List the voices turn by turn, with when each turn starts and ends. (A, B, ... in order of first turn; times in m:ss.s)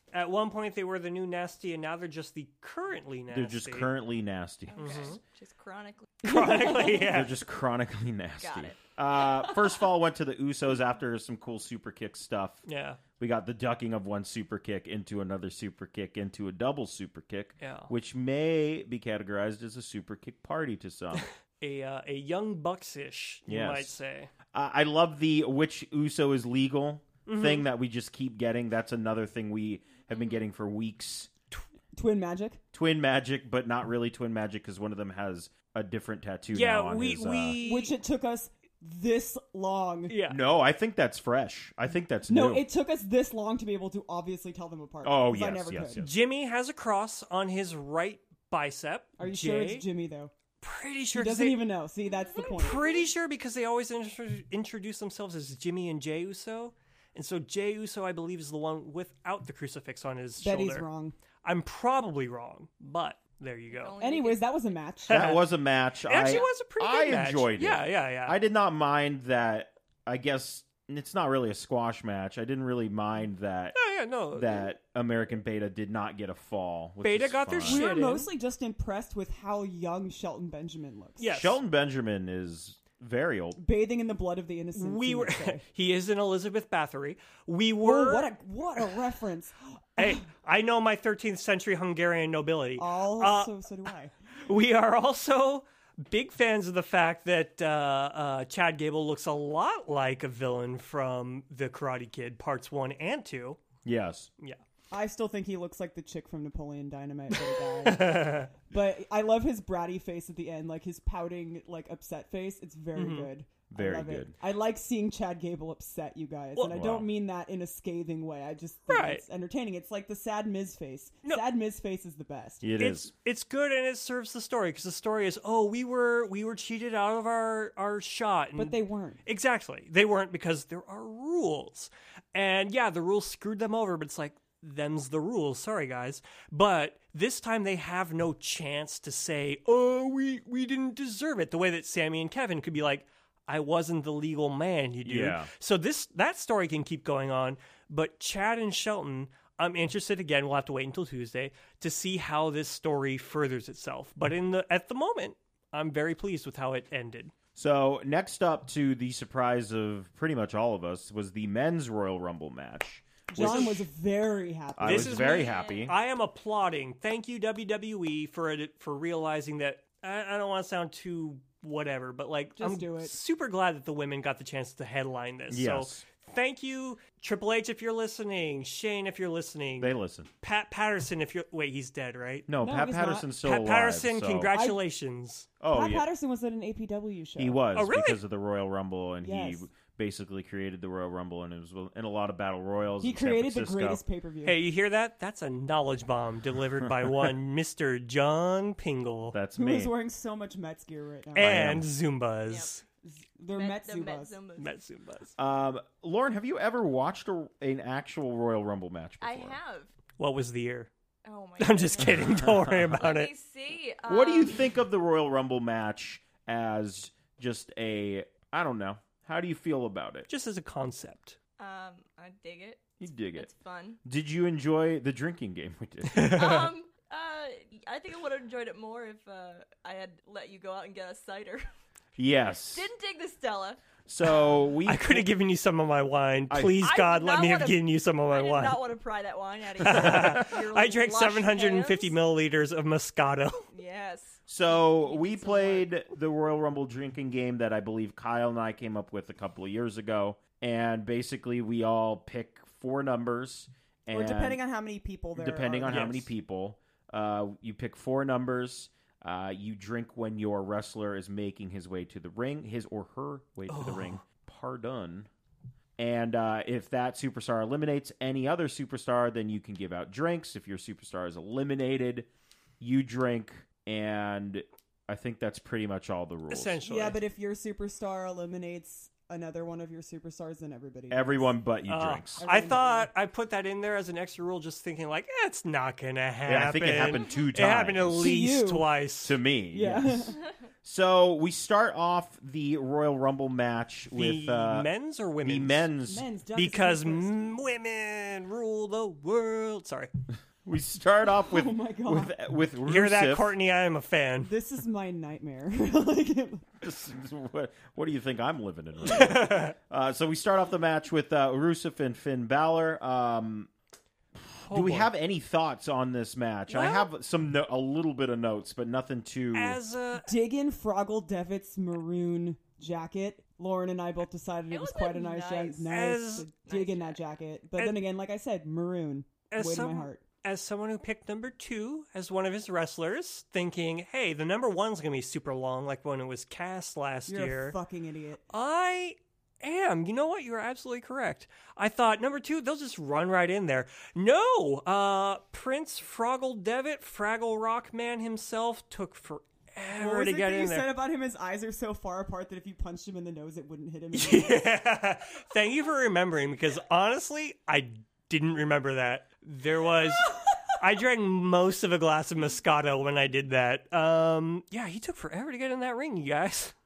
0:00.1-0:03.9 A
0:03.3-0:05.2 B
0:04.7-0:06.3 C
0:04.8-0:05.2 A
0:06.2-0:07.4 A
0:06.2-0:07.1 D
0:06.9-0:12.6 B
0:08.4-0:08.8 C
0:12.7-0:13.0 A
0:13.2-0:21.3 B
0:17.6-0:17.9 A
0:21.2-0:24.3 A
0:23.5-0:24.0 B
0:24.5-0:31.3 B
0:27.3-0:27.7 A
0:31.9-0:32.6 D
0:32.7-0:37.6 B
0:36.5-0:38.0 A
0:37.6-0:40.2 D
0:40.1-0:40.4 A
0:40.3-0:42.7 B
0:42.3-0:46.0 D
0:45.0-0:46.1 B
0:46.0-0:49.9 A
0:49.2-0:50.3 D
0:50.6-0:51.7 A
0:51.1-0:53.0 D
0:52.4-0:52.9 C
0:52.5-1:00.9 A
1:00.4-1:01.2 D
1:01.4-1:04.0 A
1:03.7-1:04.5 C
1:04.0-1:05.2 D
1:05.1-1:05.4 A
1:05.1-1:13.8 B
1:06.0-1:08.4 A
1:06.2-1:06.5 C
1:13.7-1:14.6 A
1:14.3-1:17.9 B
1:17.0-1:18.3 A
1:17.7-1:21.3 D
1:21.2-1:21.6 A
1:21.3-1:23.6 B
1:23.6-1:25.6 D
1:24.8-1:28.3 A
1:27.8-1:30.2 D
1:30.0-1:33.5 A
1:32.8-1:34.1 D
1:34.4-1:43.6 A
1:43.8-1:44.3 B
1:44.9-2:02.6 D
1:47.5-1:48.5 A
1:53.0-1:53.3 A
1:53.7-1:54.4 B
1:56.6-1:57.0 A
1:56.7-1:57.1 B
1:58.9-1:59.2 A
2:02.6-2:03.1 B
2:02.8-2:37.3 A
2:08.6-2:09.2 D
2:25.0-2:25.5 B
2:37.6-2:43.8 B
2:43.3-2:45.2 D
2:43.4-2:43.8 A
2:44.8-2:46.0 B
2:44.8-3:02.5 A
2:45.3-2:45.9 C
2:52.6-2:53.2 D
2:55.5-2:56.0 B
2:59.8-3:00.3 B
3:02.5-3:04.5 B
3:02.6-3:03.3 D
3:03.4-3:05.5 A
3:04.5-3:04.8 D
3:05.6-3:06.1 B
3:05.7-3:07.6 D
3:07.4-3:14.0 B
3:07.7-3:08.2 A
3:09.2-3:09.7 D
3:13.0-3:14.6 D
3:14.4-3:19.4 A
3:16.8-3:17.3 B
3:19.3-3:19.9 B
3:19.6-3:21.6 D
3:21.4-3:22.8 A
3:21.4-3:21.9 B
3:23.0-3:24.4 D
3:23.5-3:24.7 C
3:24.6-3:25.4 A
3:25.4-3:29.6 B
3:29.2-3:29.9 C
3:30.2-3:30.9 A
3:31.2-3:34.7 C
3:31.6-3:33.3 A
3:32.2-3:32.8 B
3:34.1-3:40.3 B
3:40.3-3:41.4 A
3:41.6-3:44.0 C
3:43.0-3:43.5 B
3:44.0-3:46.4 B
3:46.1-3:46.7 A
3:46.3-3:51.6 C
3:52.2-3:52.9 B
3:52.6-3:53.8 C
3:54.1-3:55.3 B
3:54.8-3:58.8 A
3:56.5-3:56.8 B
3:56.8-4:02.2 C
3:59.8-4:03.7 A
4:03.7-4:05.9 C
4:04.5-4:14.6 B
4:14.1-4:16.2 D
4:15.4-4:25.3 B
4:15.9-4:16.3 A
4:23.7-4:24.2 A
4:26.0-4:32.3 B
4:32.8-4:36.8 B
4:36.5-4:37.2 A
4:36.8-4:41.5 D
4:41.1-4:42.4 B
4:41.9-4:49.4 A
4:42.4-4:43.1 D
4:46.5-4:48.3 B
4:48.2-4:48.9 D
4:49.2-4:54.9 B
4:49.7-4:50.4 D
4:54.1-4:55.9 A
4:55.4-4:56.3 B
4:56.1-4:57.5 D
4:56.6-5:00.1 A
5:00.6-5:03.5 B
5:01.4-5:02.3 D
5:02.8-5:04.5 A
5:04.4-5:06.7 D
5:06.8-5:13.7 B
5:09.0-5:09.8 A
5:14.6-5:15.1 A
5:14.6-5:19.8 B
5:16.7-5:17.1 A
5:19.5-5:20.3 A
5:20.2-5:30.2 D
5:24.7-5:26.0 C
5:25.9-5:26.5 A
5:26.6-5:27.2 C
5:27.8-5:28.0 A
5:29.5-5:37.8 A
5:37.3-5:38.4 D
5:38.5-5:50.9 A
5:49.9-5:54.6 D
5:54.1-6:06.7 A